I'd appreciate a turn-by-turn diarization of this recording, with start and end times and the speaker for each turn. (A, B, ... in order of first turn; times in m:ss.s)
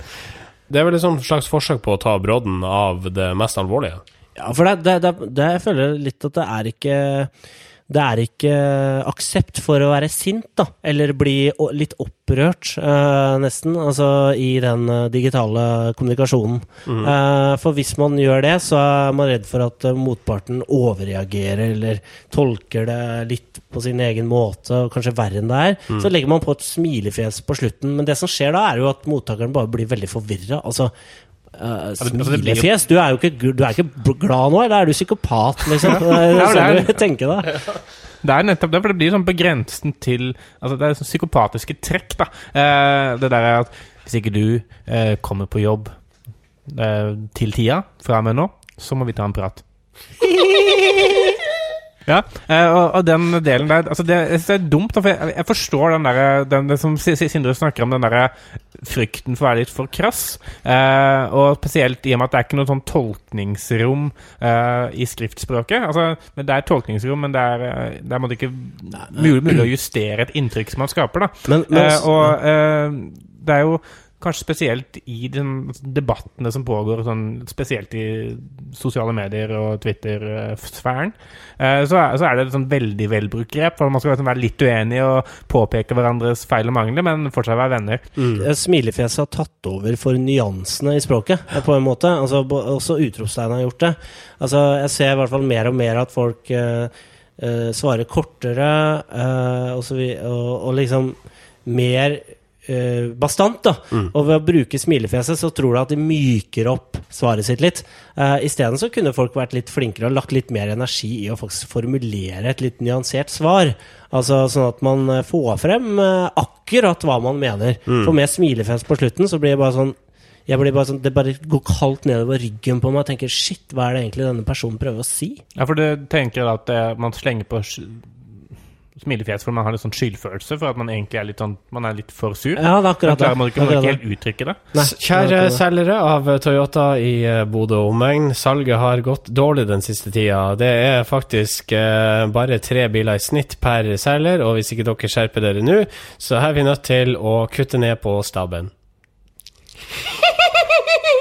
0:00.7-0:04.0 A
0:04.4-0:07.3 B
0:07.9-0:30.9 B
0:16.8-0:17.1 A
0:31.5-0:37.5 B
0:32.0-0:32.7 C
0:35.8-0:36.9 C
0:38.2-0:45.9 C
0:46.7-0:49.6 C
0:50.3-0:51.3 C
0:52.1-1:28.0 C
1:11.5-1:12.3 B
1:28.2-1:28.5 A
1:28.4-2:00.0 B
1:57.9-1:58.1 A
2:00.5-2:05.4 B
2:05.6-2:08.1 C
2:09.0-2:14.6 C
2:12.6-2:14.0 B
2:14.7-2:15.6 B
2:14.8-2:28.7 A